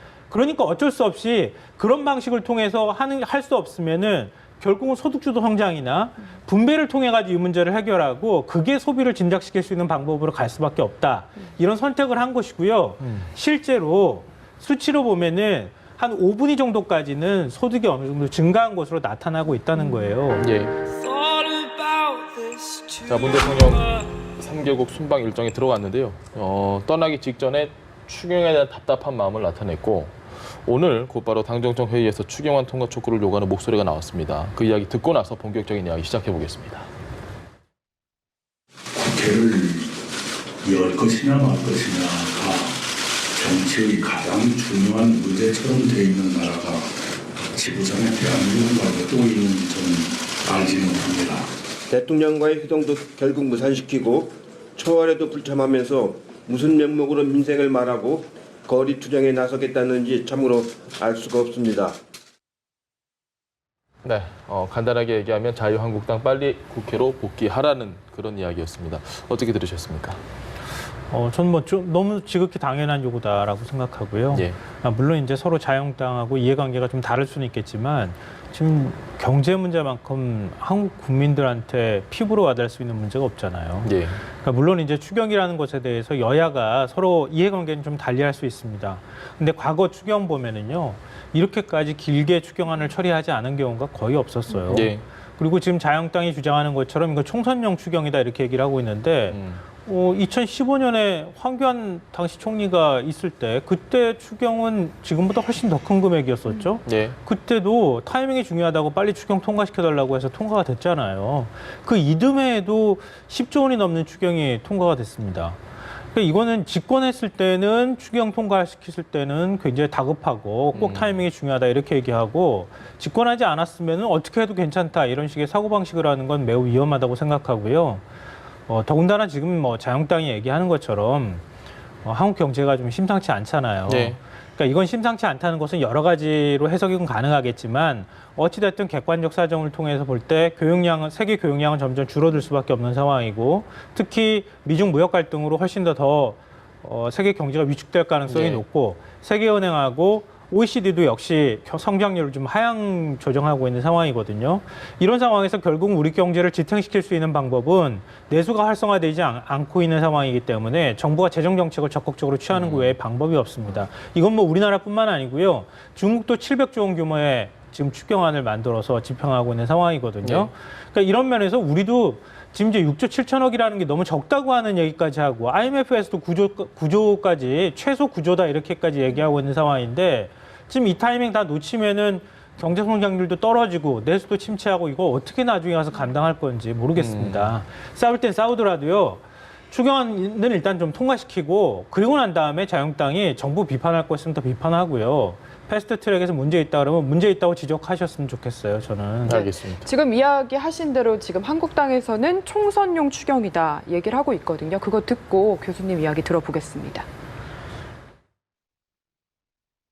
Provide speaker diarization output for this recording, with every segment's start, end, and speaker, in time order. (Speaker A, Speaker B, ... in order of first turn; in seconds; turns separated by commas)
Speaker A: 0.3-20.5, Speaker B: 13.0-13.3, Speaker B: 20.4-20.8, Speaker B: 23.0-36.9, Speaker C: 38.9-39.9, Speaker C: 40.6-42.8, Speaker C: 43.3-47.0, Speaker C: 47.5-51.5, Speaker D: 51.9-62.0, Speaker B: 64.0-70.2, Speaker A: 71.1-115.6, Speaker B: 83.8-84.2, Speaker B: 94.7-95.0, Speaker B: 99.3-99.6, Speaker B: 106.8-107.2, Speaker A: 116.1-128.0, Speaker B: 120.7-121.2, Speaker A: 128.7-131.4, Speaker A: 132.0-199.5, Speaker B: 133.9-134.2, Speaker B: 148.3-148.6, Speaker B: 162.5-162.9, Speaker B: 170.2-170.5, Speaker B: 186.9-187.5, Speaker B: 199.2-199.9, Speaker E: 199.9-207.1